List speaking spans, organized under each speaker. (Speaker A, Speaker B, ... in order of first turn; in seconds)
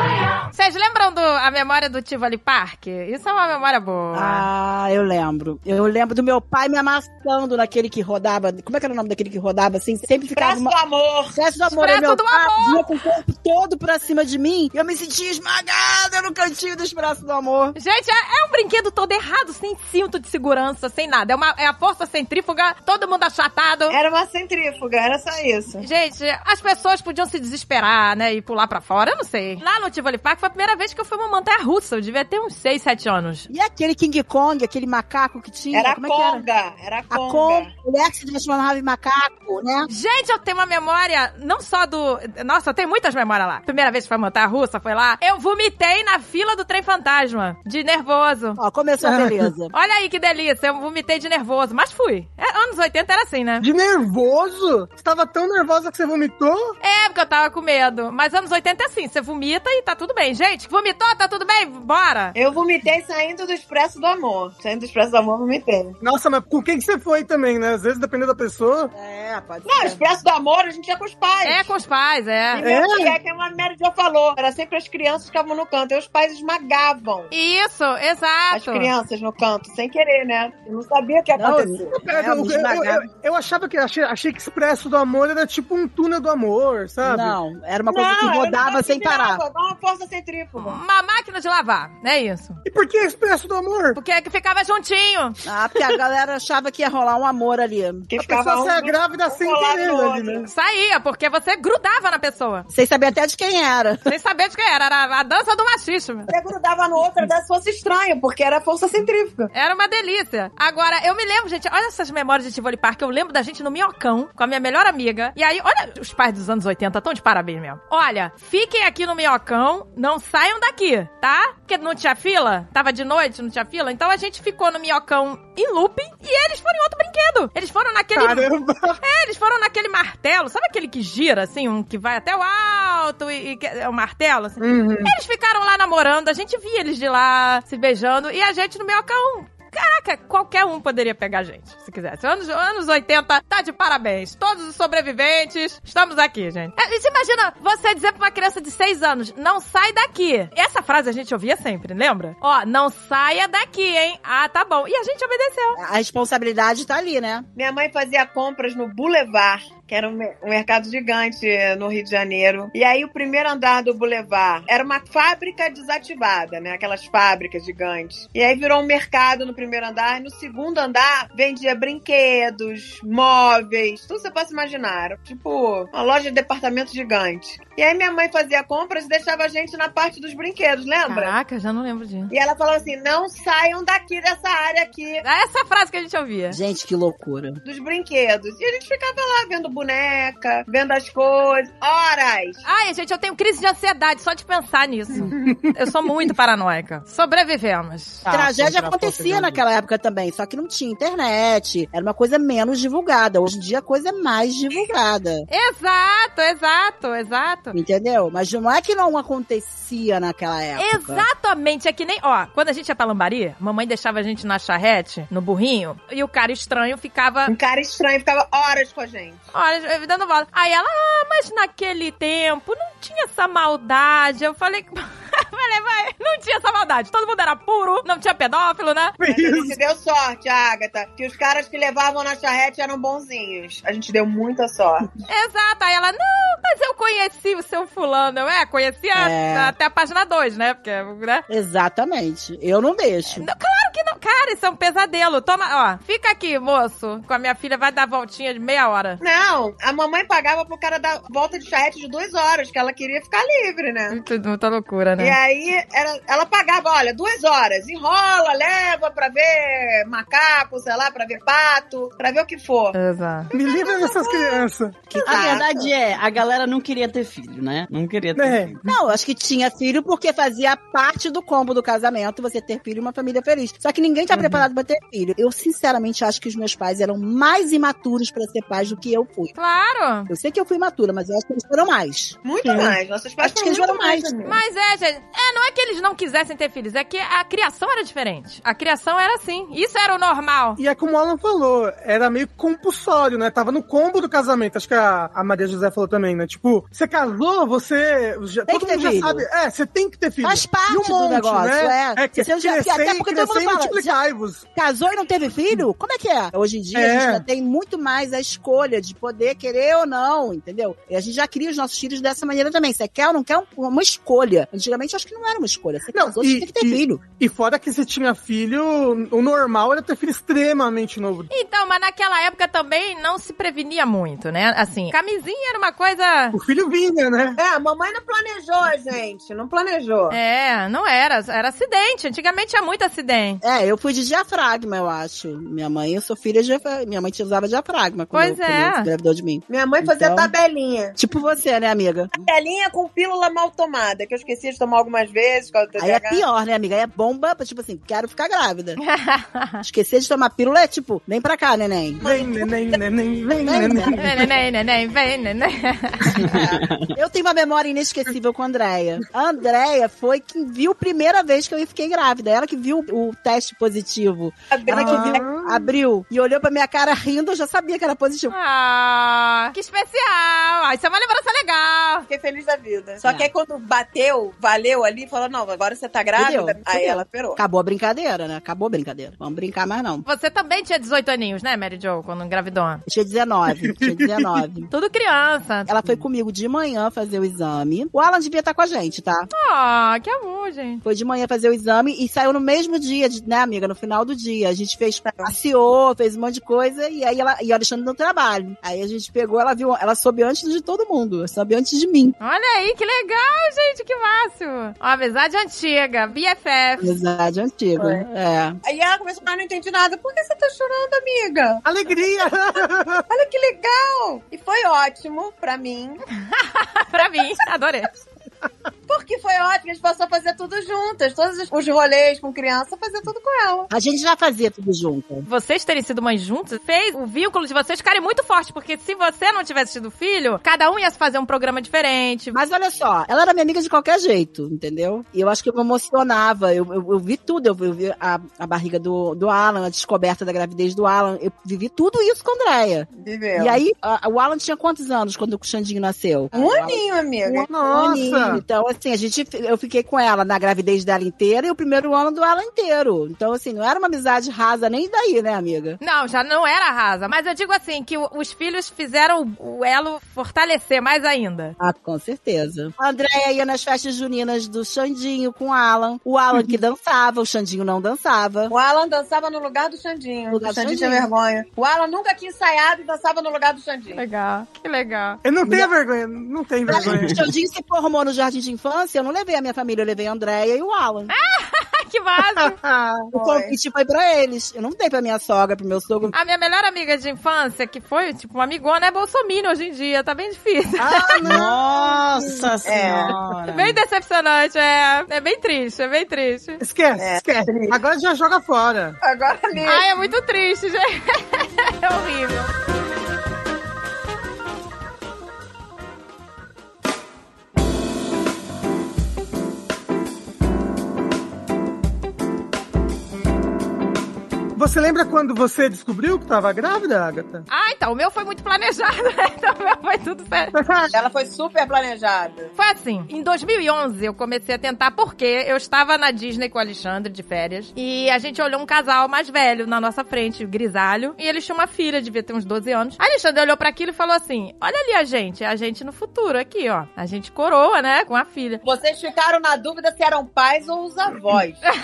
Speaker A: 0.5-4.5, 11.7-12.9, 17.8-24.0, 25.8-33.5, 39.9-48.6, 49.7-53.7, 56.8-62.4, 71.4-72.7, 77.3-78.9, 90.6-92.6, 94.0-95.4, 100.5-102.7, 104.1-106.3, 109.5-128.5, 129.0-155.8, 181.1-182.3, 185.2-186.6, 192.7-198.2, 205.5-207.8, 210.8-217.5, 219.5-229.2, 235.3-241.4, 243.3-249.2, 254.1-255.4, 262.9-263.5, 279.6-280.3, 284.4-290.8, 321.5-326.6, 330.3-333.6, 338.3-339.1, 349.0-349.8, 354.2-356.4, 368.5-372.3, 380.3-383.0, 384.9-385.9, 389.5-391.0, 402.4-407.2, 416.4-418.1, 425.5-432.6, 456.0-461.8, 474.1-475.4, 481.3-482.8, 486.4-491.4, 493.7-496.8, 499.9-502.7, 517.7-520.7, 522.8-538.8
Speaker B: 4.1-10.7, 11.3-17.8, 33.5-36.5, 37.1-39.9, 48.6-49.7, 68.9-70.0, 81.4-83.0, 87.0-89.4, 95.5-98.1, 102.7-104.0, 155.8-157.5, 186.5-187.6, 198.3-205.5, 207.7-211.3, 239.2-239.7, 241.5-243.5, 265.1-265.7, 268.9-279.5, 280.3-284.3, 298.7-299.5, 300.4-304.1, 304.8-317.2, 333.6-340.5, 341.2-342.3, 346.0-349.0, 349.8-352.2, 353.6-354.2, 356.4-368.6, 373.2-373.5, 376.4-380.2, 383.1-384.9, 385.9-389.5, 391.0-402.4, 407.0-408.8, 423.9-425.5, 432.5-456.0, 461.8-468.7, 470.5-471.3, 475.6-475.9, 476.9-481.3, 483.3-486.3
Speaker C: 10.3-11.4, 23.9-25.9, 35.7-37.7, 62.4-66.0, 69.7-71.7, 72.5-77.3, 78.5-82.1, 87.9-90.8, 98.1-100.5, 106.3-109.5, 157.6-181.3, 182.3-185.2, 187.6-192.6, 217.5-219.4, 229.3-235.1, 249.2-254.2, 255.2-263.0, 263.5-265.9, 282.4-284.6, 327.6-330.4, 339.7-341.2, 342.4-346.4, 352.2-353.0, 356.4-356.8, 364.7-365.5, 372.3-377.6, 395.2-395.5, 408.0-408.2, 408.8-411.9, 413.3-416.2, 419.1-423.9, 443.2-443.8, 446.5-447.7, 468.7-474.2, 483.3-483.7, 492.9-493.4, 497.2-498.0, 499.2-500.1, 521.1-522.7, 538.8-541.8
Speaker D: 49.0-49.4, 53.6-56.7, 66.0-68.9, 72.6-73.2, 82.0-87.4, 92.7-94.0, 98.2-100.5, 128.2-129.0, 134.6-135.2, 199.3-199.5, 229.2-229.8, 263.5-265.1, 268.4-269.0, 290.8-304.6, 306.9-307.4, 316.1-321.5, 326.5-327.6, 352.2-354.5, 364.9-365.9, 383.9-384.5, 411.8-413.2, 447.6-448.6, 475.4-477.5, 482.6-483.3, 491.0-492.7, 496.8-499.2, 514.8-517.6, 520.7-521.1
Speaker E: 198.2-199.5, 265.3-268.8, 356.6-357.1, 491.4-494.0